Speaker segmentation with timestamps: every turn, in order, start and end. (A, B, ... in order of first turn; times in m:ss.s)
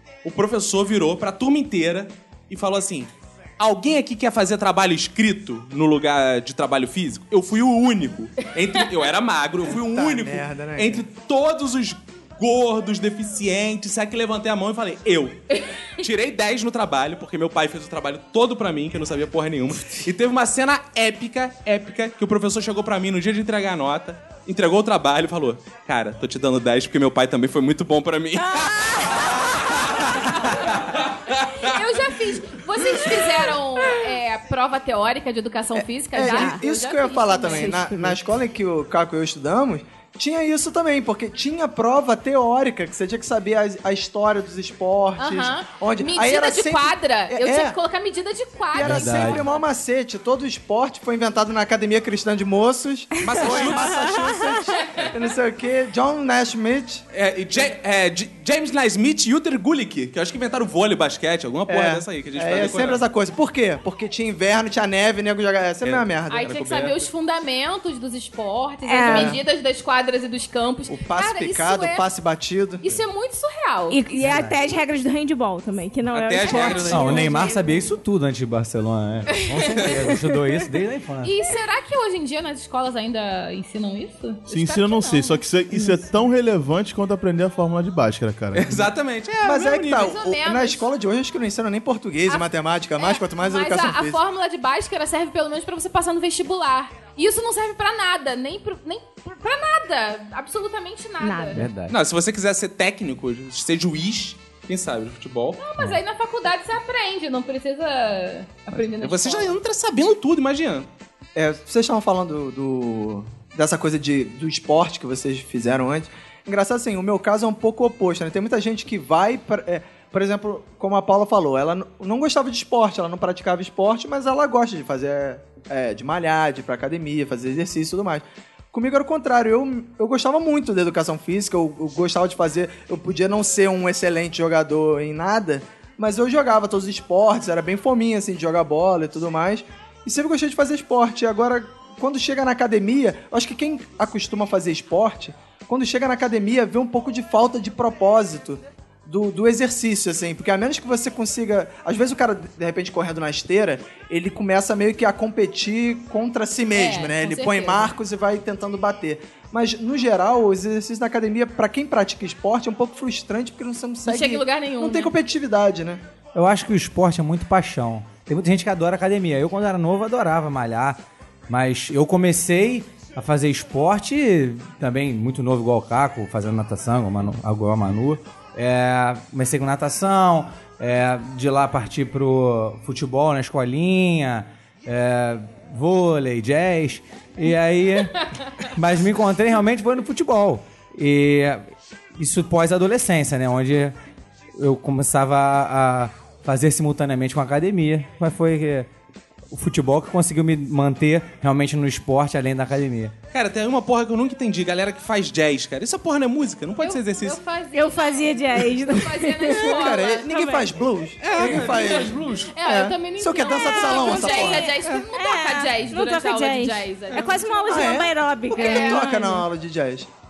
0:00.2-0:31.8 A
0:09.7-0:11.0 B
0:28.6-0:29.6 C
0:31.5-0:37.8 D
0:35.7-0:47.8 B
0:36.2-0:36.6 C
0:37.5-0:38.2 C
0:45.2-0:49.4 D
0:48.7-0:57.0 B
0:48.8-0:49.5 E
0:53.2-0:54.3 A
0:53.6-0:54.2 C
0:57.1-1:03.0 A
1:01.7-1:06.5 B
1:05.8-1:07.1 A
1:06.3-1:12.0 D
1:08.9-1:09.4 C
1:09.0-1:09.4 B
1:10.9-1:13.0 B
1:12.8-1:14.0 D
1:13.9-1:17.6 C
1:14.1-1:14.6 E
1:16.1-1:17.5 A
1:16.9-1:21.3 E
1:17.1-1:17.7 D
1:19.3-1:19.9 D
1:21.2-1:25.4 D
1:24.5-1:28.9 F
1:28.5-1:30.2 A
1:29.4-1:34.2 B
1:29.8-1:30.8 D
1:32.3-1:41.6 D
1:41.2-1:41.6 C
1:41.5-1:42.0 E
1:41.9-1:45.6 A
1:45.6-1:49.6 D
1:49.0-1:50.9 A
1:51.4-2:46.0 B
2:36.7-2:37.9 D
2:44.0-2:45.1 D
2:46.4-3:14.0 E
3:14.6-3:18.9 E
3:19.5-3:23.1 E
3:23.3-3:27.4 A
3:26.8-3:30.5 D
3:27.7-3:30.7 C
3:29.6-3:34.8 B
3:31.2-3:32.6 A
3:31.4-3:38.0 D
3:33.5-3:39.4 C
3:37.7-3:40.1 B
3:38.5-3:39.4 D